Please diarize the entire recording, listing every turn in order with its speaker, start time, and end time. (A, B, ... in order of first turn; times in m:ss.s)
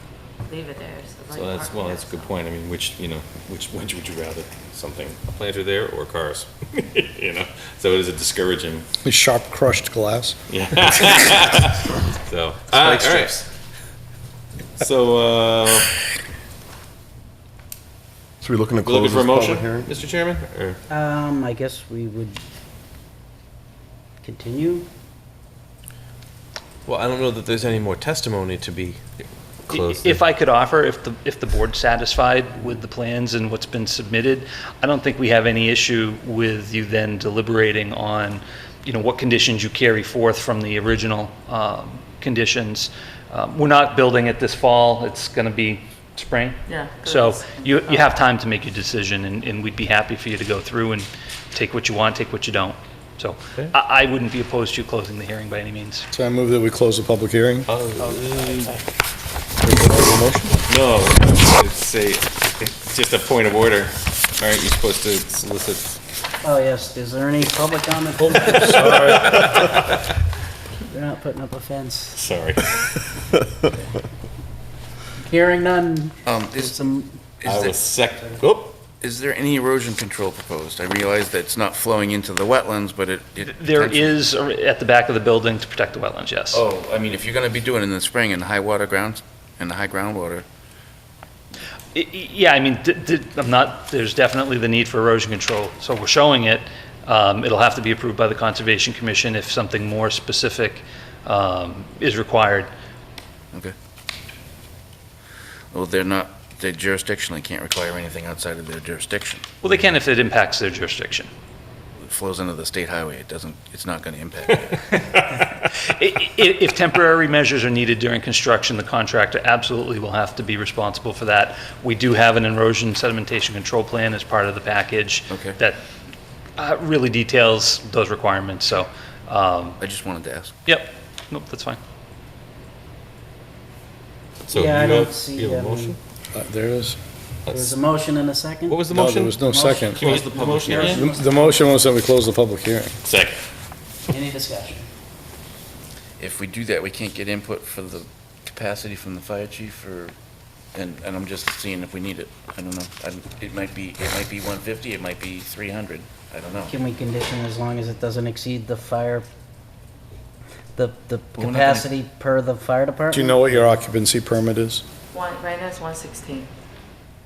0:00.4-0:02.3 A
0:01.3-0:08.8 B
0:09.0-0:10.3 C
0:10.5-0:13.4 B
0:12.8-0:13.3 D
0:14.8-0:15.9 B
0:18.4-0:19.9 C
0:18.8-0:20.8 B
0:20.9-0:22.4 E
0:24.2-0:24.9 E
0:26.8-0:29.0 D
0:29.7-0:30.2 B
0:29.7-0:56.1 F
0:46.7-0:48.1 A
0:56.1-0:57.7 C
0:57.7-0:58.8 B
0:59.6-1:00.6 C
1:00.7-1:06.0 B
1:06.4-1:08.9 E
1:08.4-1:09.8 B
1:08.8-1:09.2 C
1:10.9-1:12.2 E
1:12.1-1:13.0 B
1:15.2-1:17.1 E
1:16.2-1:17.8 G
1:17.4-1:18.8 B
1:19.0-1:24.2 G
1:23.4-1:26.6 F
1:26.5-1:30.4 G
1:31.9-1:42.7 F
1:45.7-1:49.4 G
1:49.6-1:51.3 F
1:52.0-1:54.9 G
1:54.9-2:05.8 F
2:05.3-2:05.6 G
2:06.6-2:09.8 F
2:09.8-2:10.5 G
2:10.7-2:11.8 F
2:14.5-2:16.0 B
2:14.5-2:16.0 E
2:16.3-2:17.0 C
2:17.5-2:17.7 B
2:17.5-2:18.9 E
2:18.7-2:21.1 B
2:18.9-2:20.0 C
2:19.5-2:21.9 E
2:20.9-2:22.9 C
2:23.0-2:23.4 B
2:24.1-2:24.8 E
2:26.2-2:30.1 G
2:30.7-2:36.7 G
2:36.7-2:39.2 E
2:40.8-2:43.8 E
2:41.4-2:41.9 G
2:43.1-2:44.8 C
2:45.1-2:46.5 A